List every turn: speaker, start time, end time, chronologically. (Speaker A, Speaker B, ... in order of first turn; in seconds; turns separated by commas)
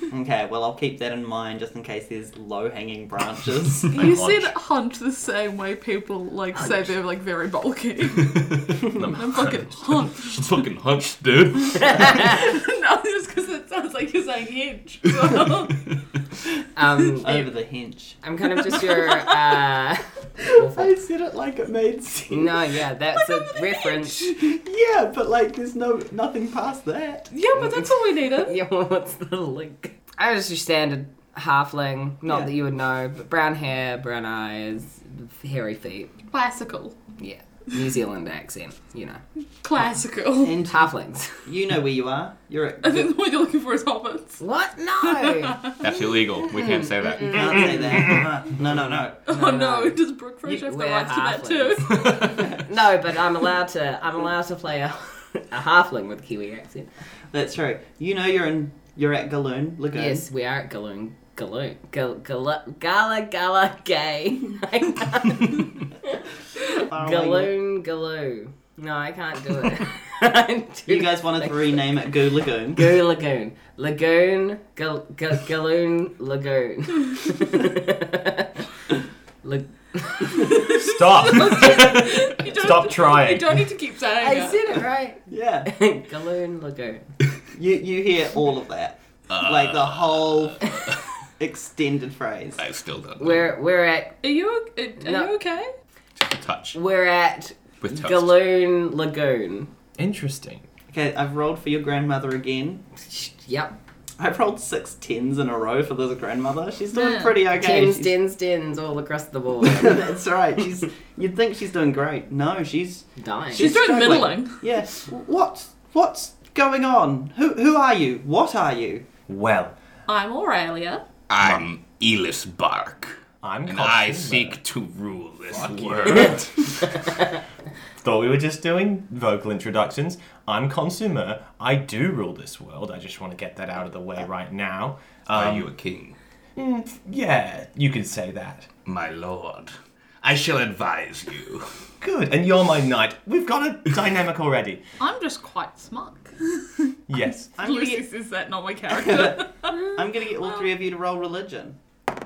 Speaker A: 0.1-4.0, Speaker B: 3.9-8.6, Speaker C: 3.9-4.5, Speaker D: 8.2-8.8, Speaker C: 8.8-10.1, Speaker B: 9.1-10.5, Speaker D: 10.2-12.2, Speaker B: 11.7-15.9, Speaker E: 11.8-12.4, Speaker E: 16.8-17.5, Speaker A: 17.2-18.2, Speaker E: 18.2-20.9, Speaker B: 18.9-19.3, Speaker A: 20.7-22.7, Speaker E: 22.3-24.3, Speaker B: 23.2-24.2, Speaker A: 24.2-27.3, Speaker B: 27.3-28.6, Speaker E: 27.6-36.1, Speaker B: 36.3-37.0, Speaker E: 37.2-39.2, Speaker B: 39.6-40.6, Speaker A: 40.4-43.1, Speaker E: 40.7-41.5, Speaker B: 42.8-44.4, Speaker E: 44.4-47.9, Speaker B: 45.0-45.8, Speaker D: 45.8-47.6, Speaker A: 47.2-49.2, Speaker B: 49.3-52.3, Speaker E: 49.3-56.9, Speaker C: 52.0-52.5, Speaker A: 57.3-60.3, Speaker E: 59.9-71.8, Speaker A: 66.8-67.5, Speaker A: 70.9-73.0, Speaker E: 72.7-78.6, Speaker E: 79.4-80.7, Speaker B: 80.5-84.8, Speaker C: 80.6-83.6, Speaker E: 84.2-87.0, Speaker A: 85.3-85.7, Speaker A: 87.5-90.7, Speaker D: 89.3-91.0, Speaker A: 91.4-92.6, Speaker D: 92.6-93.5, Speaker E: 93.2-94.2, Speaker B: 94.2-95.7, Speaker E: 95.0-95.3, Speaker D: 96.2-96.8, Speaker E: 96.7-99.7, Speaker D: 97.8-98.3, Speaker C: 100.0-100.7, Speaker A: 100.9-102.8, Speaker E: 103.0-103.8, Speaker A: 104.2-108.2, Speaker B: 106.9-107.4, Speaker E: 107.5-110.1, Speaker A: 109.6-119.1, Speaker E: 113.2-113.8, Speaker B: 113.5-114.6, Speaker C: 119.3-119.8, Speaker B: 120.1-121.0, Speaker D: 121.3-126.9, Speaker C: 121.4-121.7, Speaker C: 123.4-124.6, Speaker C: 125.5-127.3, Speaker C: 128.0-135.7, Speaker D: 135.3-136.2, Speaker C: 136.6-138.7, Speaker D: 138.8-141.7, Speaker C: 142.0-144.8, Speaker B: 145.0-146.9, Speaker C: 147.1-147.6, Speaker A: 147.6-148.1, Speaker B: 147.6-149.9, Speaker A: 148.9-151.8